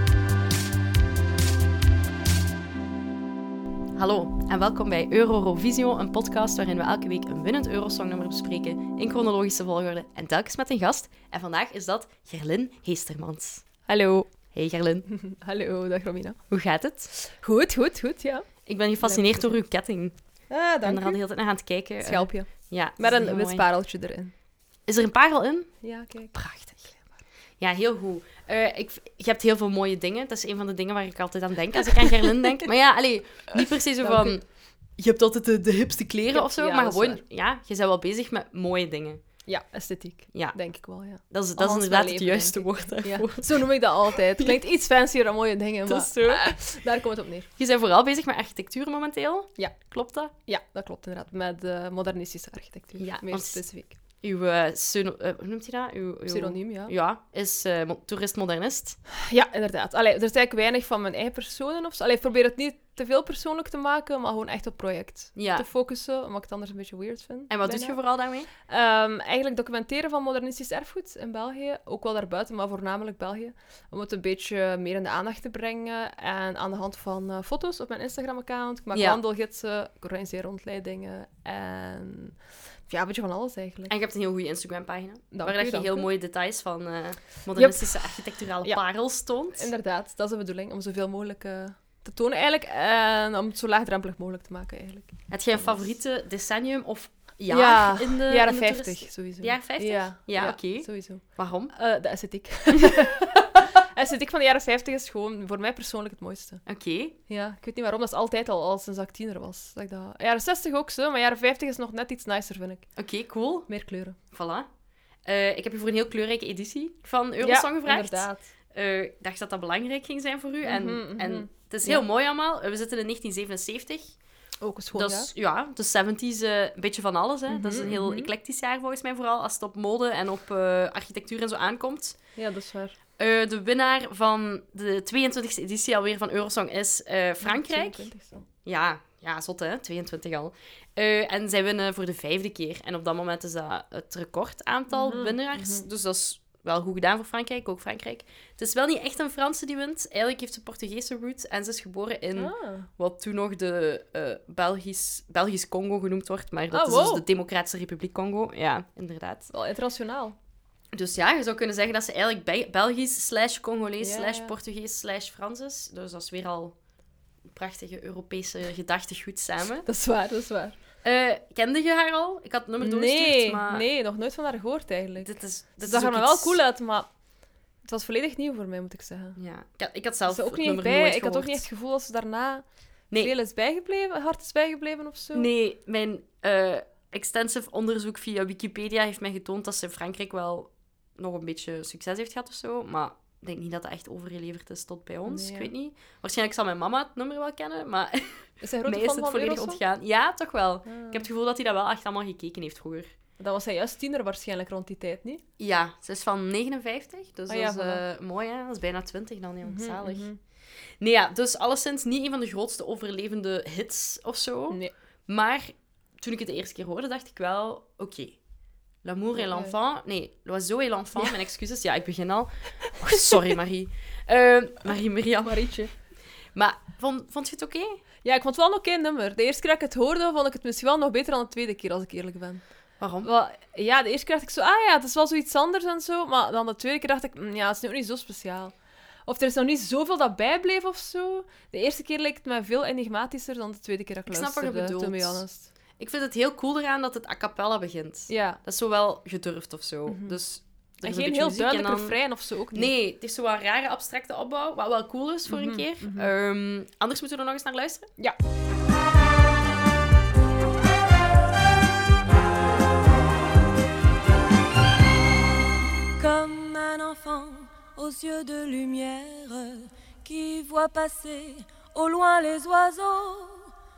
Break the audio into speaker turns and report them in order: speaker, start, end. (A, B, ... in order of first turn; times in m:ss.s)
0:04.0-0:13.6 A
0:13.9-0:14.3 B
0:14.5-0:15.1 A
0:15.1-0:16.4 B
0:16.5-0:17.1 A
0:17.1-0:18.5 B
0:18.7-0:20.2 A
0:19.0-0:19.5 B
0:20.5-0:21.2 B
0:20.8-0:23.7 A
0:22.0-0:24.3 B
0:24.9-0:25.7 A
0:25.8-0:27.2 B
0:27.6-0:34.4 A
0:34.0-0:34.4 B
0:35.0-0:39.2 A
0:36.3-0:37.2 B
0:39.5-0:47.5 B
0:40.3-0:40.6 A
0:41.2-0:43.8 A
0:45.8-0:46.6 A
0:47.6-0:50.3 A
0:50.4-0:53.9 B
0:53.0-0:53.6 A
0:54.2-0:59.0 A
0:56.3-0:56.9 B
0:59.1-1:08.0 B
1:05.4-1:05.7 A
1:07.5-1:08.5 A
1:08.6-1:22.4 B
1:18.9-1:19.2 A
1:22.9-1:23.9 B
1:23.9-1:29.7 A
1:25.3-1:26.1 B
1:27.6-1:28.8 B
1:29.5-1:35.9 B
1:35.3-1:41.7 A
1:37.5-1:46.6 B
1:46.7-1:47.2 A
1:47.3-1:52.9 B
1:53.0-1:53.7 A
1:53.7-1:54.2 B
1:54.3-1:54.7 A
1:55.3-2:04.2 A
1:57.4-1:58.5 B
2:00.6-2:02.0 B
2:04.6-2:05.3 B
2:04.9-2:12.2 A
2:07.5-2:08.3 B
2:12.4-2:13.0 B
2:13.2-2:18.1 A
2:17.4-2:18.5 B
2:18.6-2:39.5 A
2:24.9-2:25.9 B
2:32.4-2:32.9 B
2:36.7-2:37.2 B
2:39.5-2:40.4 B
2:40.9-2:46.8 A
2:44.0-2:44.5 B
2:47.4-2:49.9 A
2:49.9-2:50.8 B
2:51.0-2:53.8 A
2:52.8-2:57.1 B
2:55.2-2:56.6 A
2:57.8-2:59.4 B
2:59.4-3:01.6 A
3:00.3-3:05.5 B
3:05.3-3:23.1 A
3:15.2-3:15.7 B
3:18.6-3:19.8 B
3:20.9-3:21.3 B
3:23.4-3:25.4 B
3:25.6-3:30.3 A
3:27.5-3:28.0 B
3:29.6-3:30.4 B
3:31.0-3:38.4 A
3:39.0-3:45.7 A
3:39.4-3:39.7 B
3:43.0-3:43.4 B
3:45.4-3:45.9 B
3:46.6-3:48.0 A
3:48.2-3:52.6 B
3:53.0-3:53.3 A
3:53.2-3:58.7 B
3:59.3-4:05.7 B
4:04.3-4:05.4 A
4:06.0-4:12.2 A
4:08.3-4:08.6 B
4:10.1-4:10.4 B
4:11.0-4:12.9 B
4:12.7-4:18.1 A
4:15.5-4:16.3 B
4:26.2-4:33.7 C